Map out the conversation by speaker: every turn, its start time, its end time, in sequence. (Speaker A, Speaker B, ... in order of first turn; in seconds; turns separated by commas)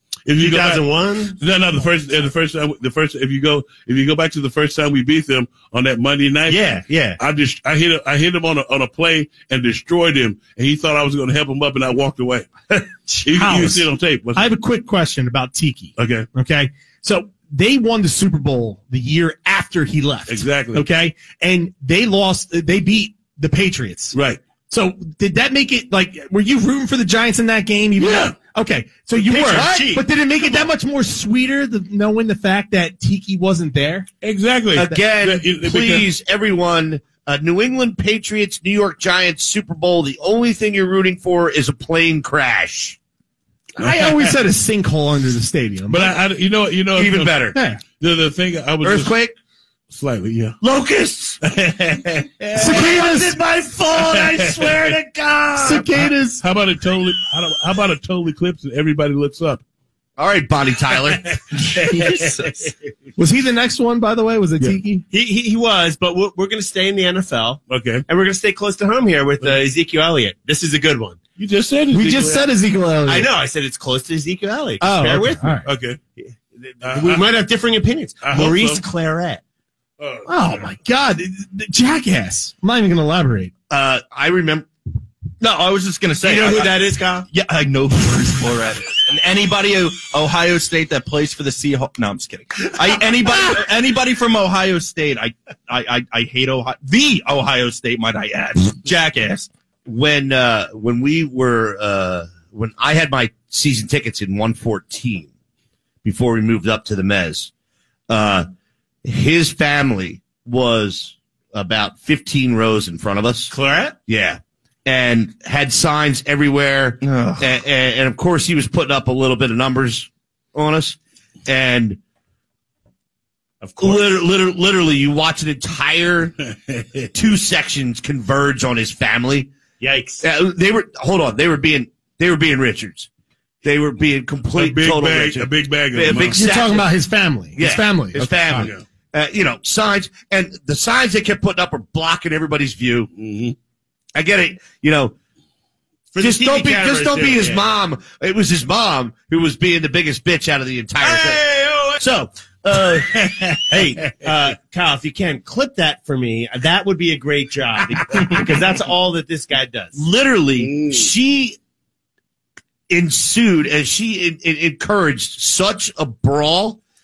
Speaker A: 0.2-0.8, Speaker B: 0.4-1.4, Speaker A: 1.4-12.5, Speaker B: 6.5-7.2, Speaker C: 13.1-24.1, Speaker A: 13.2-14.4, Speaker A: 16.0-16.3, Speaker A: 20.3-20.9, Speaker A: 24.1-24.4, Speaker C: 24.7-34.1, Speaker A: 28.0-28.3, Speaker B: 29.1-30.0, Speaker D: 29.5-30.0, Speaker A: 34.2-36.0, Speaker D: 34.7-43.0, Speaker C: 43.8-46.1, Speaker A: 43.8-44.3, Speaker A: 45.9-49.1, Speaker D: 46.9-47.6, Speaker C: 47.5-47.8, Speaker D: 48.8-49.3, Speaker A: 49.9-50.6, Speaker D: 50.6-51.4, Speaker A: 51.4-53.0, Speaker C: 52.6-53.3, Speaker D: 52.6-55.8, Speaker A: 54.0-55.0, Speaker C: 55.6-56.4, Speaker A: 56.4-59.6, Speaker D: 60.2-61.3, Speaker A: 61.3-62.7, Speaker E: 62.1-62.4, Speaker C: 63.2-65.0, Speaker B: 65.1-71.2, Speaker A: 67.7-68.0, Speaker A: 71.4-72.5, Speaker C: 71.9-73.3, Speaker B: 73.0-75.5, Speaker C: 74.8-75.7, Speaker A: 75.6-76.0, Speaker B: 76.6-79.4, Speaker A: 76.8-77.3, Speaker A: 78.2-78.8, Speaker A: 80.0-80.7, Speaker C: 80.3-83.5, Speaker D: 83.7-84.7, Speaker E: 85.4-99.5, Speaker B: 86.2-87.3, Speaker D: 99.8-105.3, Speaker D: 106.0-107.5, Speaker D: 108.1-108.5, Speaker D: 109.0-113.5, Speaker B: 113.5-114.0, Speaker D: 114.1-122.0, Speaker E: 117.0-117.5, Speaker B: 123.6-124.2, Speaker D: 123.8-126.3, Speaker A: 126.7-127.1, Speaker D: 127.1-129.5, Speaker B: 129.8-130.2, Speaker D: 130.2-133.1, Speaker D: 133.6-136.9, Speaker A: 134.5-136.4, Speaker C: 136.3-138.7, Speaker D: 137.6-143.1, Speaker A: 138.5-138.8, Speaker A: 143.2-143.6, Speaker D: 144.1-145.1, Speaker B: 146.1-147.7, Speaker D: 146.2-153.9, Speaker A: 153.3-153.6, Speaker B: 153.7-160.0, Speaker D: 159.9-161.6, Speaker D: 162.9-166.8